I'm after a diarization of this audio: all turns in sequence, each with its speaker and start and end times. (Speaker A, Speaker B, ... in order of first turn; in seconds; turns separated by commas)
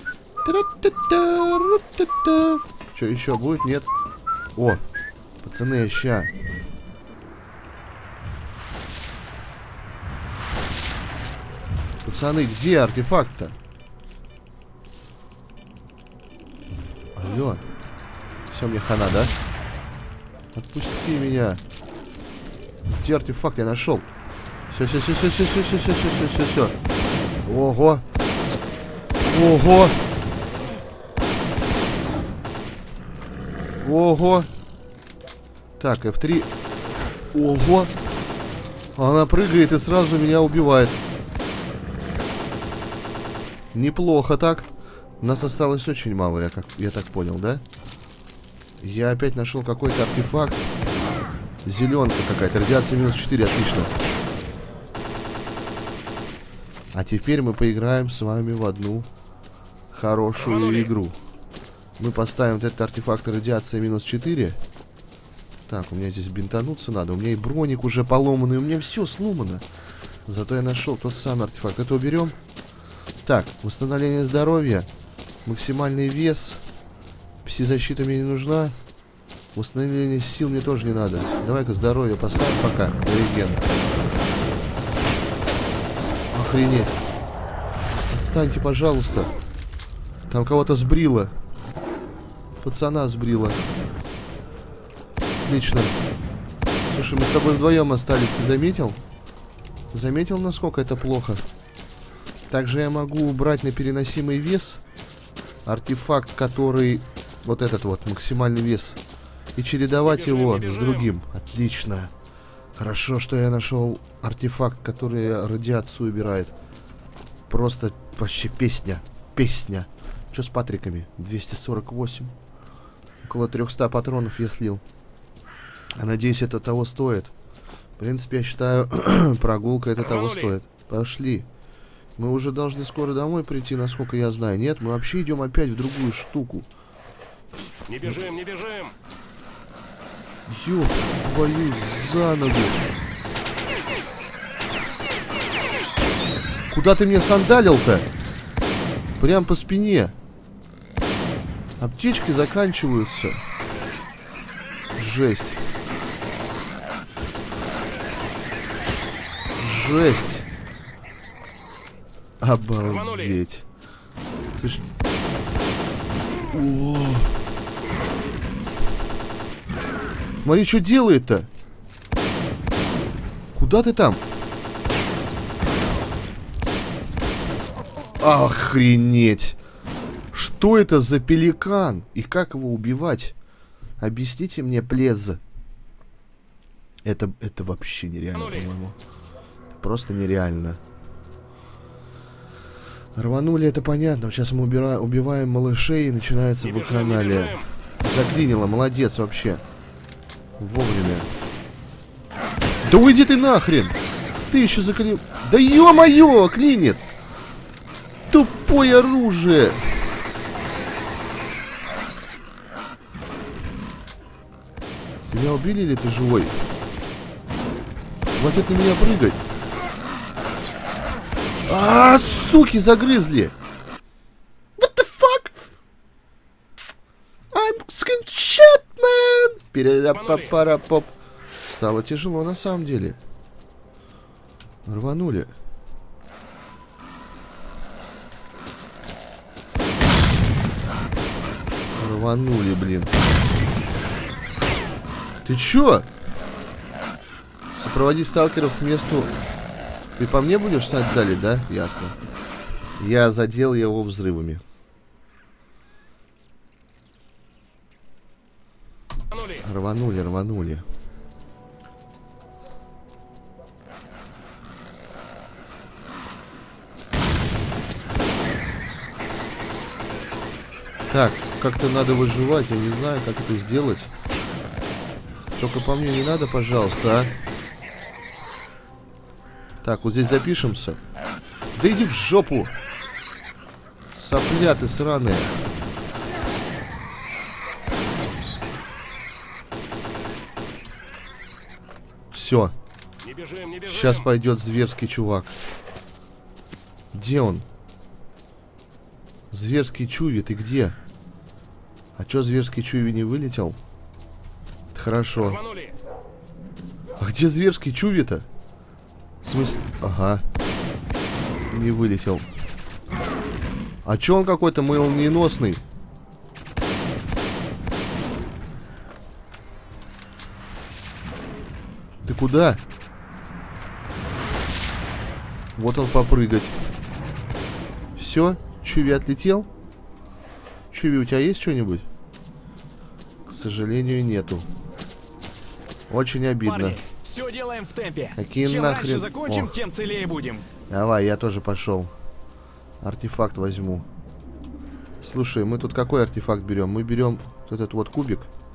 Speaker A: 0.4-3.9, Speaker A: 4.6-4.8, Speaker A: 5.4-6.3, Speaker A: 12.0-13.6, Speaker A: 17.2-17.6, Speaker A: 18.5-19.3, Speaker A: 20.5-21.6, Speaker A: 23.0-24.1, Speaker A: 24.7-26.8, Speaker A: 27.4-28.0, Speaker A: 29.2-30.0, Speaker A: 33.8-34.5, Speaker A: 35.8-36.5, Speaker A: 37.3-37.9, Speaker A: 39.0-41.0, Speaker A: 43.7-44.7, Speaker A: 45.2-47.6, Speaker A: 48.8-50.6, Speaker A: 51.6-53.9, Speaker A: 56.9-59.1, Speaker A: 59.9-61.2, Speaker B: 60.4-60.9, Speaker A: 62.0-64.6, Speaker A: 65.7-69.6, Speaker A: 70.3-72.4, Speaker A: 73.2-74.9, Speaker A: 75.5-76.6, Speaker A: 77.4-78.8, Speaker A: 79.5-83.7, Speaker A: 86.3-86.9, Speaker A: 88.1-89.3, Speaker A: 90.3-91.3, Speaker A: 92.6-93.6, Speaker A: 95.4-96.0, Speaker A: 96.9-99.0, Speaker A: 99.9-101.4, Speaker A: 102.5-104.8, Speaker A: 105.7-109.0, Speaker A: 109.6-112.1, Speaker B: 110.0-111.1, Speaker A: 112.8-116.5, Speaker A: 117.5-122.3, Speaker A: 123.2-124.8, Speaker A: 126.0-127.3, Speaker A: 128.0-131.5, Speaker B: 130.0-130.6, Speaker A: 132.2-136.7, Speaker B: 137.9-138.9, Speaker A: 140.5-142.9, Speaker A: 146.7-148.1, Speaker A: 149.2-150.1, Speaker A: 151.8-153.4, Speaker A: 155.0-155.6, Speaker A: 159.6-160.5, Speaker A: 162.4-163.7, Speaker B: 162.8-163.4, Speaker A: 164.6-164.8, Speaker A: 166.5-167.3, Speaker A: 170.4-171.5, Speaker A: 173.5-174.2, Speaker A: 178.2-179.6, Speaker A: 180.3-183.3, Speaker A: 184.0-185.4, Speaker A: 187.1-189.0, Speaker B: 188.3-188.7, Speaker A: 189.8-190.8, Speaker A: 193.2-199.6, Speaker B: 196.6-197.7, Speaker A: 200.6-201.3, Speaker A: 202.8-207.0, Speaker A: 208.3-209.8, Speaker A: 215.3-216.6, Speaker A: 218.4-219.4, Speaker A: 221.7-223.5, Speaker A: 224.8-225.6, Speaker A: 227.5-231.1, Speaker B: 230.1-230.6, Speaker A: 231.7-233.2, Speaker A: 234.9-235.5, Speaker A: 241.9-243.1, Speaker A: 245.4-246.1, Speaker A: 247.8-249.3, Speaker A: 250.2-252.2, Speaker A: 253.0-254.6, Speaker B: 259.3-259.6, Speaker A: 259.6-260.9, Speaker A: 271.1-274.1, Speaker A: 275.6-277.3, Speaker A: 279.8-281.0, Speaker A: 281.8-282.7, Speaker A: 284.1-285.6, Speaker A: 292.3-292.7, Speaker B: 293.2-294.3, Speaker A: 293.9-295.6, Speaker A: 297.1-297.6, Speaker A: 299.5-301.0, Speaker A: 302.2-303.8, Speaker A: 304.9-305.6, Speaker B: 305.4-305.9, Speaker A: 307.2-308.5, Speaker A: 309.4-310.4, Speaker A: 311.7-312.5, Speaker A: 314.0-315.8, Speaker A: 322.2-322.8, Speaker A: 325.8-326.8, Speaker A: 328.2-329.7, Speaker A: 330.9-332.1, Speaker A: 333.5-334.7, Speaker A: 336.1-337.0, Speaker C: 336.6-340.7, Speaker A: 338.4-339.7, Speaker A: 340.9-342.1, Speaker A: 343.0-344.1, Speaker A: 345.2-348.5